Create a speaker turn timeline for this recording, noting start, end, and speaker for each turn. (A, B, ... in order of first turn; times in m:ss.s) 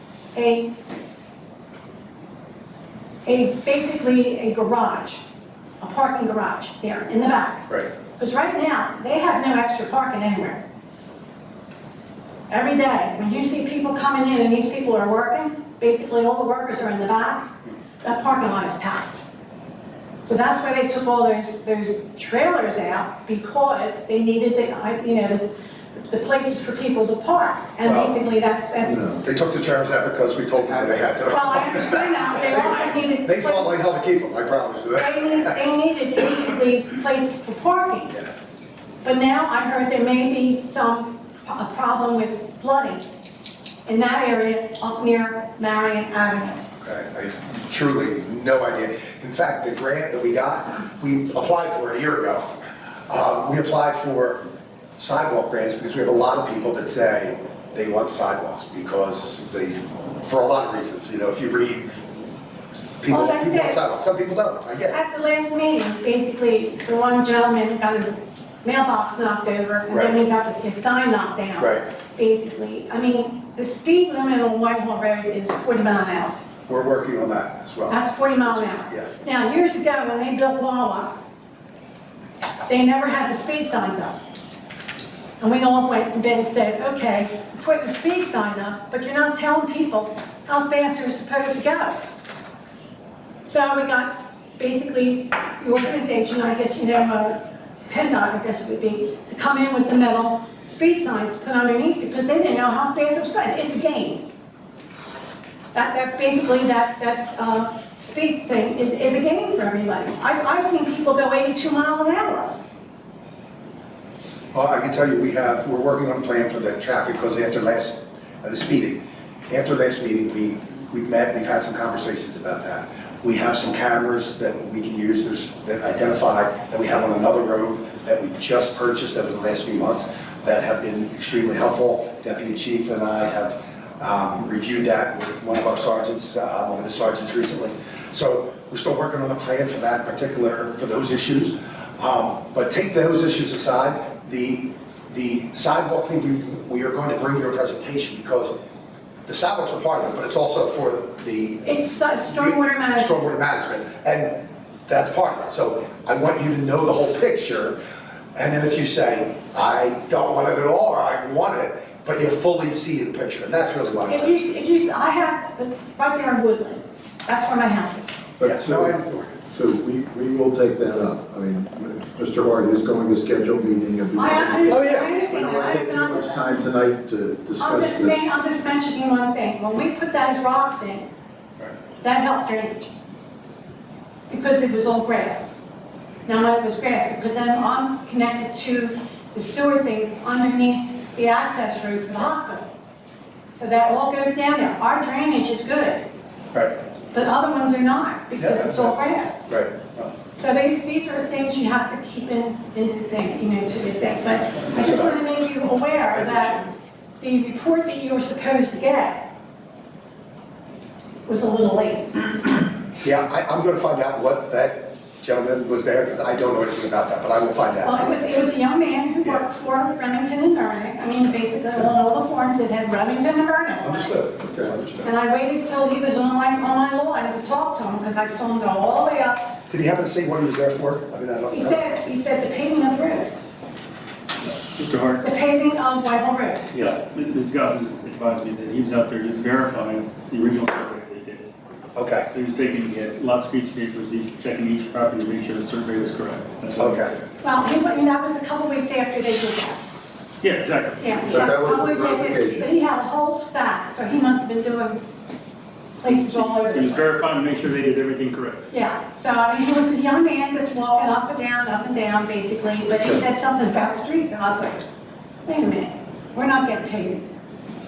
0:00.3-0:00.7 A
0:03.2-0:05.2 A
0:05.8-0:10.6 A
0:12.5-0:19.2 A
0:20.2-0:29.1 A
0:27.8-0:28.2 B
0:28.8-0:29.2 C
0:29.2-0:35.6 B
0:31.3-0:33.7 A
0:35.0-0:38.2 A
0:39.0-0:43.1 A
0:43.9-0:46.6 A
0:46.8-0:52.5 B
0:53.1-1:02.1 B
1:02.7-1:05.0 B
1:03.1-1:03.8 A
1:04.9-1:16.4 A
1:09.9-1:10.1 B
1:11.6-1:11.8 B
1:16.7-1:19.1 B
1:17.9-1:21.2 A
1:22.7-1:24.2 A
1:25.4-1:32.0 A
1:33.4-1:44.3 A
1:45.7-1:52.6 A
1:54.5-2:28.5 B
2:29.3-2:37.8 B
2:31.6-2:33.1 A
2:38.4-2:44.3 B
2:44.1-2:48.1 A
2:48.4-2:49.4 B
2:48.4-2:49.0 C
2:49.5-2:58.3 C
2:54.1-2:56.6 A
2:54.7-2:55.1 B
2:57.6-3:01.1 A
3:02.0-3:02.9 A
3:04.3-3:05.5 A
3:06.3-3:12.7 A
3:13.5-3:16.0 A
3:17.1-3:19.5 A
3:18.4-3:20.2 B
3:20.4-3:26.7 A
3:24.7-3:25.2 B
3:25.9-3:26.7 B
3:27.2-3:29.3 A
3:31.3-3:32.3 A
3:33.0-3:38.4 B
3:37.8-3:44.2 A
3:43.8-3:45.1 B
3:45.0-3:49.6 A
3:49.7-3:51.9 B
3:51.5-3:53.3 A
3:54.7-3:55.2 D
3:55.2-3:56.8 A
3:56.7-3:57.0 B
3:56.8-4:01.5 D
4:02.0-4:02.3 B
4:02.3-4:07.2 D
4:06.8-4:07.1 B
4:07.4-4:09.8 A
4:10.4-4:11.5 D
4:11.0-4:15.0 A
4:11.3-4:12.7 C
4:16.0-4:17.1 A
4:16.4-4:18.6 D
4:18.7-4:24.9 A
4:25.4-4:27.3 A